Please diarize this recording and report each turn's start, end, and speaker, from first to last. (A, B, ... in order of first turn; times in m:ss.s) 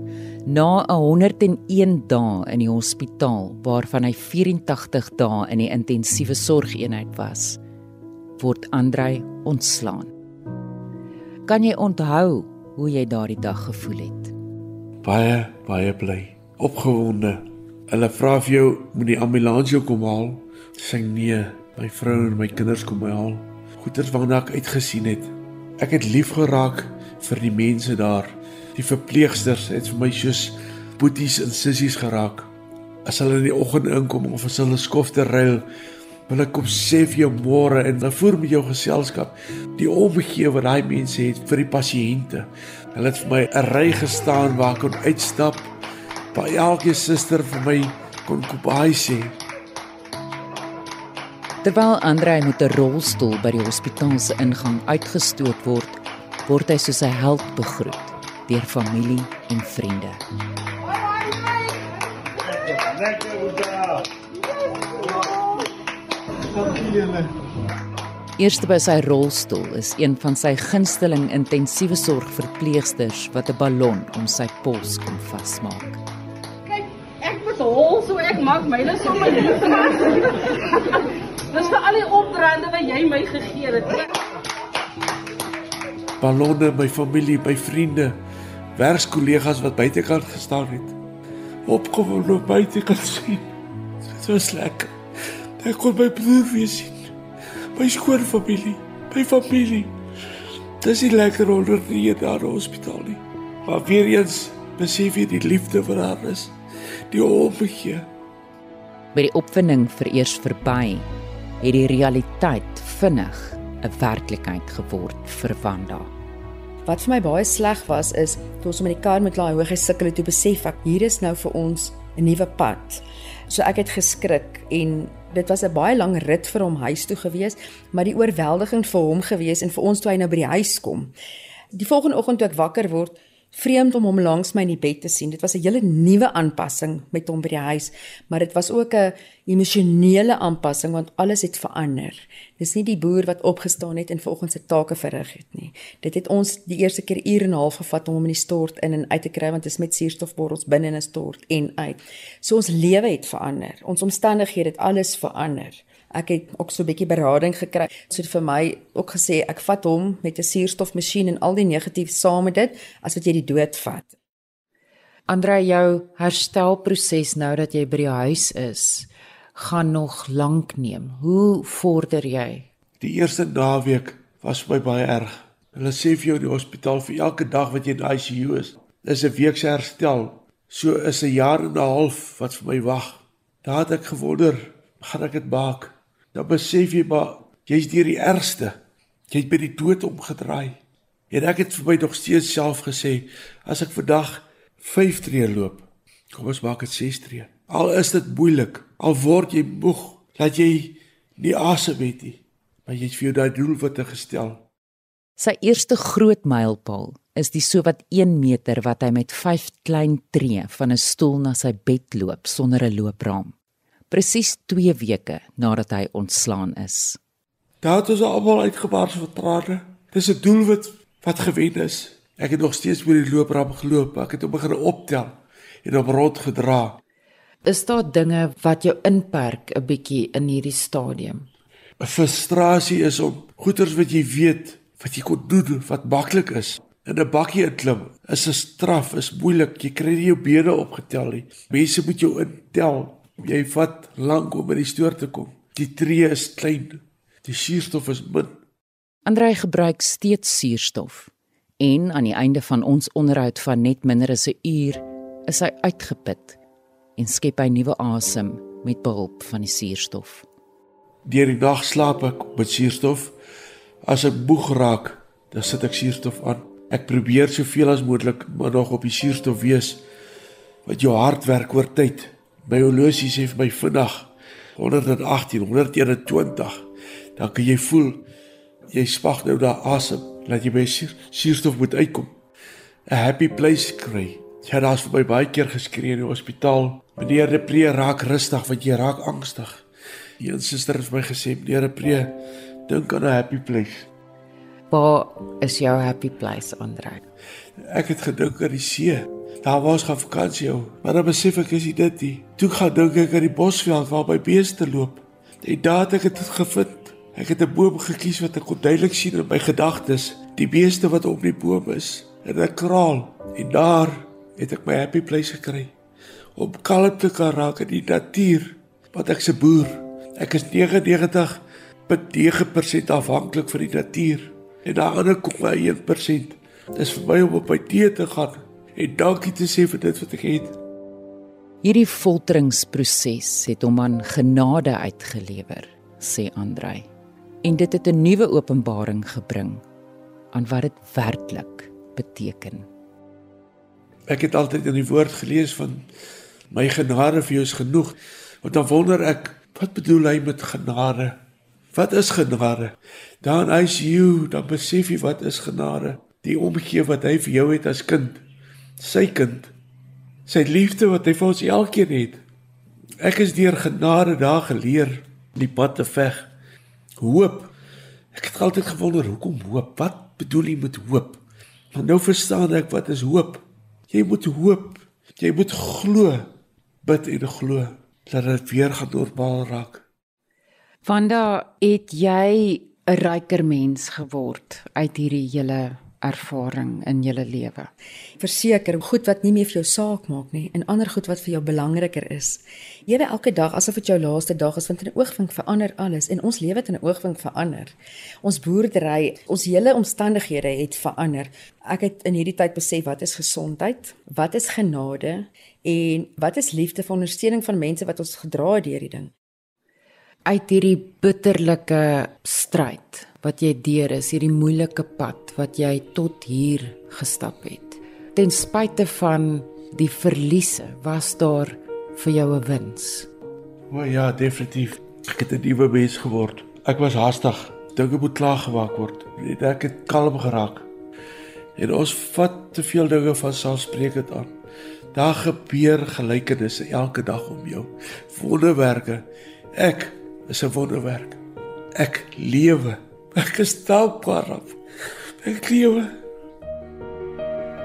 0:00.4-0:07.6 A
0:08.4-0:10.1 A
0:11.4-0:14.3 A
0:15.0-0:32.5 B
0:33.0-0:35.6 B
0:36.3-0:45.7 B
0:46.3-0:49.4 B
0:51.6-1:00.2 A
1:08.4-1:16.0 A
1:17.2-1:20.3 C
1:21.5-1:24.0 C
1:26.2-1:28.2 B
1:28.8-1:31.0 B
1:31.6-1:33.5 B
1:34.0-1:34.9 B
1:35.6-1:37.1 B
1:37.8-1:39.9 B
1:40.8-1:46.5 B
1:47.1-1:48.1 B
1:49.1-1:51.1 A
1:51.6-1:56.1 A
1:56.8-2:11.1 D
2:11.7-2:44.1 D
2:45.3-2:52.7 E
2:53.0-3:08.8 B
3:09.3-3:10.8 B
3:11.3-3:24.6 B
3:25.4-3:33.5 A
3:34.1-3:37.2 A
3:37.8-3:47.0 B
3:47.6-3:51.5 E
3:52.0-4:08.6 B
4:09.2-4:16.6 A
4:17.2-4:20.4 A
4:21.2-4:23.3 B
4:24.0-4:30.0 B
4:30.8-4:36.8 B
4:37.4-4:38.2 B
4:38.9-4:42.3 B
4:43.1-4:49.8 B
4:50.4-4:52.4 B
4:52.9-4:54.1 B
4:54.9-4:57.2 E
4:57.8-5:15.9 B
5:16.6-5:30.8 B
5:31.8-5:37.1 A
5:37.6-5:39.8 A
5:40.5-5:42.9 A
5:44.3-5:46.0 B
5:46.7-5:51.4 B
5:51.9-5:58.4 B
5:59.0-5:59.7 B
6:00.5-6:02.4 B
6:03.2-6:06.5 B
6:07.2-6:07.7 B
6:08.3-6:11.4 B
6:11.9-6:16.5 B
6:17.0-6:20.0 B
6:21.0-6:27.9 E
6:28.4-6:49.3 D
6:50.4-7:03.3 E
7:03.9-7:10.9 B
7:11.8-7:14.5 B
7:15.1-7:21.4 B
7:21.9-7:24.8 B
7:25.4-7:26.1 B